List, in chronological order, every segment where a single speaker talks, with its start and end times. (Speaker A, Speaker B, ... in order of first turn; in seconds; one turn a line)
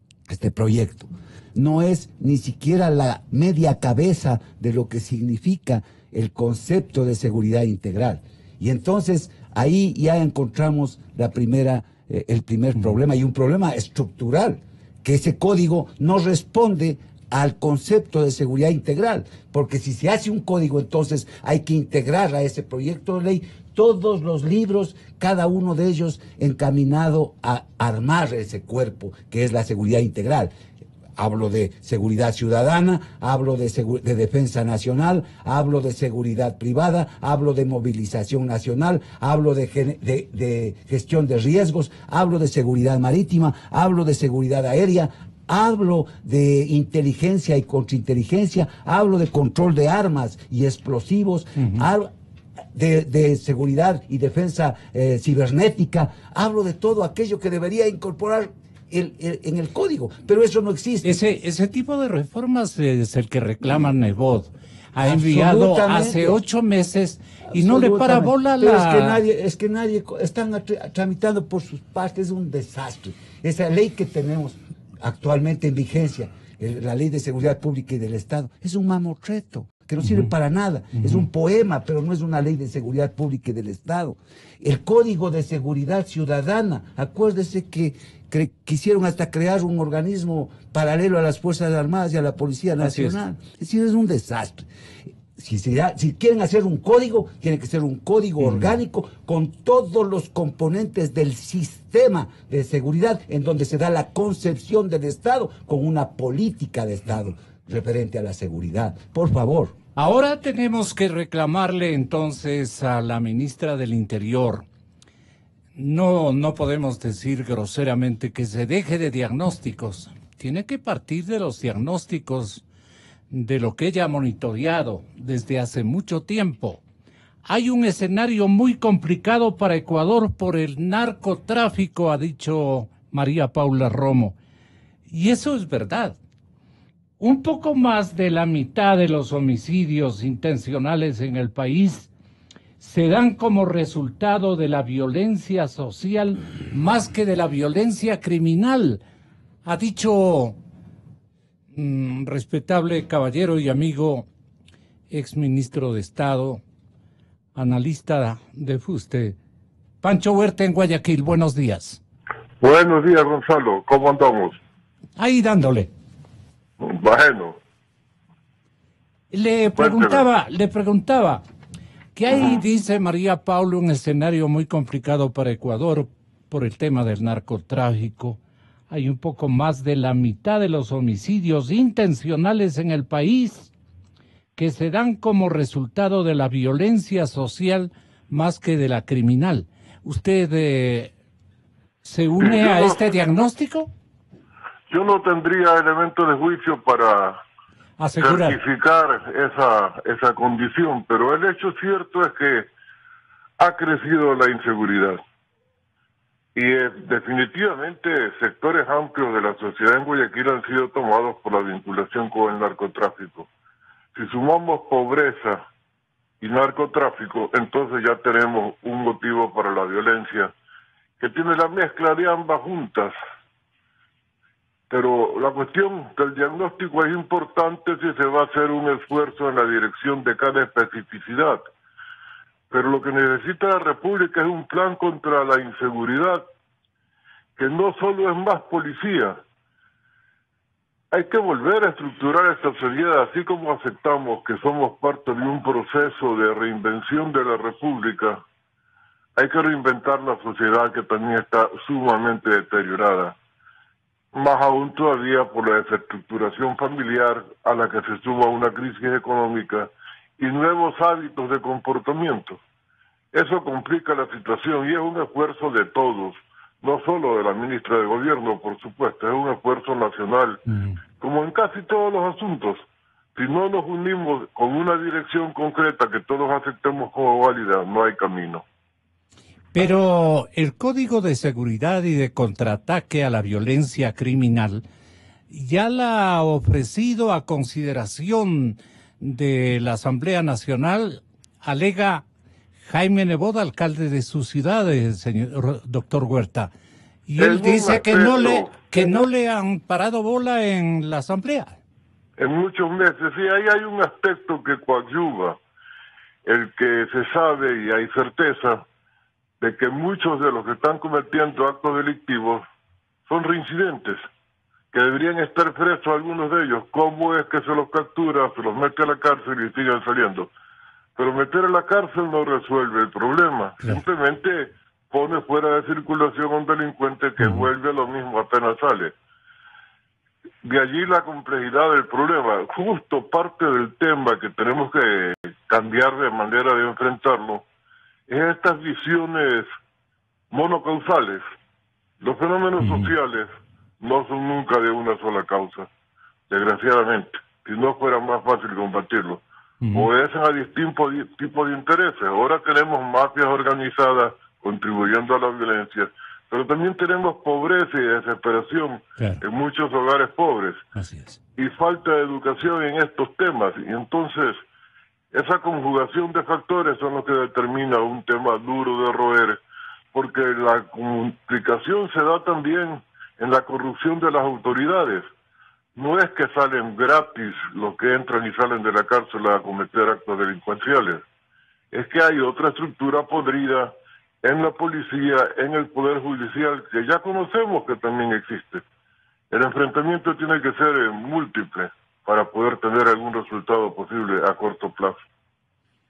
Speaker A: 0.3-30.5
Speaker A: 31.1-52.1
Speaker A: 52.7-61.2
Speaker B: 61.0-69.2
Speaker A: 65.0-66.4
Speaker A: 67.5-94.7
Speaker B: 92.8-93.2
Speaker A: 95.3-109.8
Speaker B: 98.4-98.7
Speaker B: 110.0-114.6
Speaker B: 115.8-122.6
Speaker B: 123.3-126.8
Speaker B: 127.5-134.4
Speaker B: 135.1-136.2
Speaker B: 137.2-142.1
Speaker B: 142.8-149.0
Speaker B: 149.6-150.6
Speaker B: 151.7-154.3
Speaker B: 155.1-156.6
Speaker B: 157.6-159.4
Speaker B: 160.0-162.0
Speaker C: 162.6-164.6
Speaker B: 165.2-165.9
Speaker C: 166.8-167.6
Speaker B: 169.3-171.4
Speaker C: 169.8-170.2
Speaker B: 172.1-178.4
Speaker B: 178.9-183.7
Speaker B: 184.6-191.1
Speaker B: 192.0-193.9
Speaker C: 192.4-193.0
Speaker C: 194.9-197.4
Speaker B: 198.0-198.6
Speaker C: 198.2-202.7
Speaker C: 203.6-205.2
Speaker C: 206.6-213.5
Speaker C: 214.1-215.6
Speaker C: 216.4-220.5
Speaker C: 221.2-223.2
Speaker C: 224.9-231.6
Speaker C: 232.7-236.4
Speaker C: 237.6-239.4
Speaker C: 241.1-248.4
Speaker C: 249.4-253.4
Speaker C: 254.3-262.6
Speaker C: 263.3-270.6
Speaker B: 270.7-271.0
Speaker C: 271.2-272.8
Speaker C: 273.3-278.6
Speaker B: 279.7-284.8
Speaker B: 285.5-292.2
Speaker B: 292.9-296.7
Speaker B: 297.3-301.8
Speaker C: 297.4-299.1
Speaker C: 302.4-305.6
Speaker C: 306.4-308.8
Speaker C: 309.6-312.6
Speaker C: 313.3-314.2
Speaker C: 314.9-320.5
Speaker C: 321.1-329.1
Speaker B: 327.4-327.7
Speaker C: 330.6-337.6
Speaker C: 338.3-339.7
Speaker C: 340.5-341.4
Speaker C: 342.2-343.5
Speaker B: 342.8-343.1
Speaker C: 344.0-345.9
Speaker C: 346.5-349.4
Speaker B: 349.8-350.1
Speaker C: 349.9-360.8
Speaker B: 359.2-359.4
Speaker B: 360.9-361.4
Speaker C: 361.6-364.6
Speaker C: 365.3-369.6
Speaker C: 370.1-375.3
Speaker C: 375.9-381.2
Speaker C: 381.9-388.8
Speaker C: 389.5-395.2